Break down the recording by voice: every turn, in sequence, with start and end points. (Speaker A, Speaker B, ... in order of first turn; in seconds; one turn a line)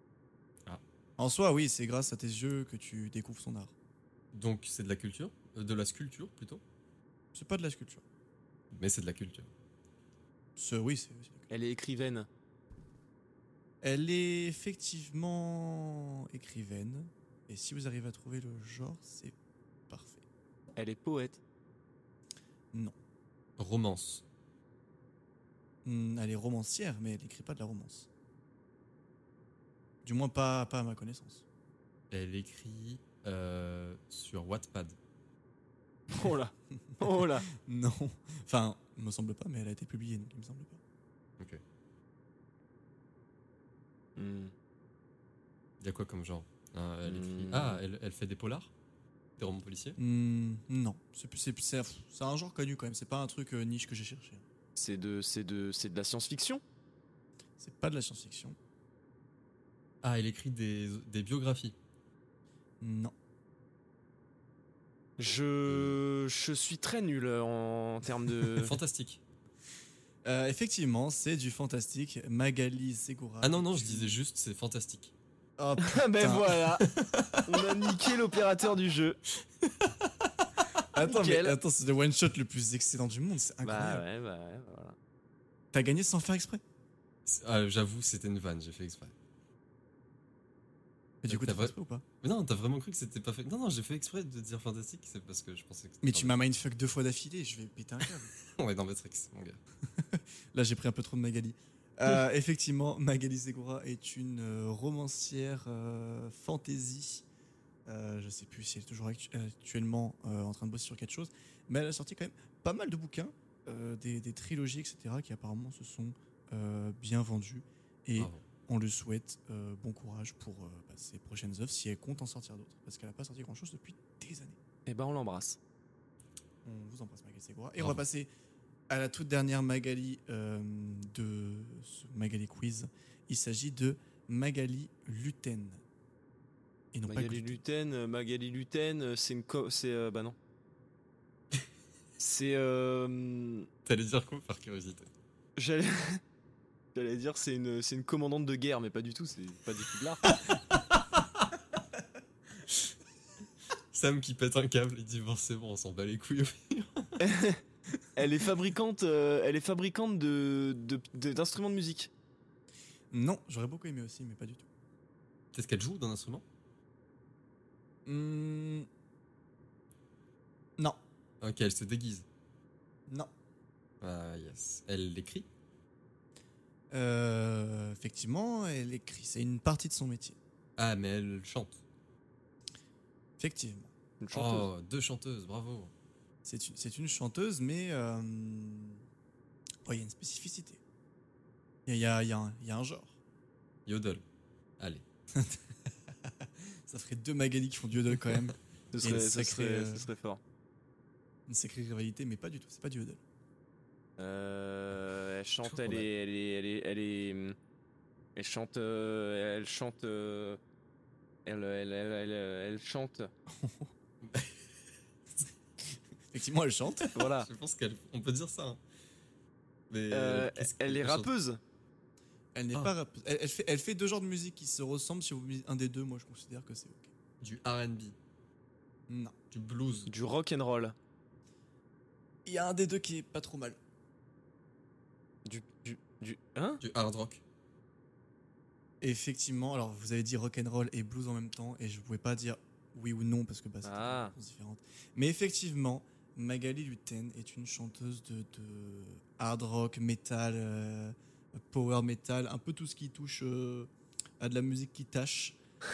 Speaker A: 1.2-3.7
Speaker B: 4.3-6.6
Speaker A: 7.3-8.0
Speaker B: 8.7-9.5
Speaker A: 10.6-11.5
Speaker C: 11.5-12.3
Speaker A: 13.8-19.4
Speaker A: 19.9-20.2
Speaker C: 20.8-21.4
Speaker B: 23.6-24.2
Speaker A: 25.9-28.1
Speaker A: 30.0-31.4
Speaker B: 32.1-35.0
Speaker C: 36.1-37.5
Speaker A: 37.5-40.8
Speaker C: 44.2-44.5
Speaker B: 45.8-48.7
Speaker C: 47.1-47.8
Speaker B: 49.4-50.0
Speaker A: 50.0-54.5
Speaker C: 54.8-56.6
Speaker A: 57.6-58.6
Speaker B: 60.0-61.8
Speaker A: 62.8-63.1
Speaker C: 65.2-68.8
Speaker B: 65.7-66.0
Speaker B: 68.5-69.2
Speaker A: 70.2-74.2
Speaker B: 73.4-75.1
Speaker A: 75.6-76.7
Speaker C: 75.8-76.9
Speaker B: 76.8-77.4
Speaker C: 77.5-79.2
Speaker A: 80.9-84.0
Speaker C: 81.0-81.6
Speaker C: 83.6-85.0
Speaker A: 85.7-86.6
Speaker B: 87.3-89.1
Speaker A: 91.2-92.0
Speaker B: 91.3-96.4
Speaker A: 96.0-98.3
Speaker B: 98.4-99.6
Speaker A: 99.9-107.3
Speaker A: 107.9-124.6
Speaker B: 118.2-118.4
Speaker C: 124.9-125.6
Speaker A: 126.6-128.3
Speaker A: 128.9-135.8
Speaker A: 136.9-137.6
Speaker C: 137.1-140.4
Speaker C: 142.2-143.7
Speaker B: 143.8-145.1
Speaker C: 145.6-146.2
Speaker C: 146.9-150.3
Speaker B: 153.9-157.2
Speaker C: 157.2-157.6
Speaker C: 158.2-162.1
Speaker A: 163.1-164.7
Speaker B: 165.5-166.4
Speaker A: 168.1-168.9
Speaker B: 171.4-172.2
Speaker B: 174.0-175.5
Speaker A: 176.9-180.4
Speaker B: 180.8-181.8
Speaker A: 183.4-183.9
Speaker C: 184.2-184.7
Speaker B: 184.3-185.9
Speaker A: 186.4-189.0
Speaker A: 189.9-190.8
Speaker A: 191.9-193.2
Speaker B: 193.9-194.2
Speaker B: 194.8-195.0
Speaker A: 195.3-200.1
Speaker C: 198.9-200.4
Speaker A: 201.5-203.2
Speaker C: 204.2-207.6
Speaker B: 205.7-206.0
Speaker C: 208.4-210.6
Speaker C: 211.5-213.3
Speaker A: 213.5-213.9
Speaker B: 214.2-214.6
Speaker A: 216.3-217.1
Speaker B: 217.1-218.8
Speaker C: 217.1-217.5
Speaker B: 219.9-221.3
Speaker C: 220.1-221.6
Speaker A: 222.6-227.1
Speaker B: 227.4-228.2
Speaker A: 229.1-229.3
Speaker B: 229.5-230.1
Speaker C: 230.1-231.0
Speaker A: 232.5-233.8
Speaker C: 235.5-236.8
Speaker B: 236.8-237.4
Speaker A: 239.0-255.6
Speaker C: 243.8-244.3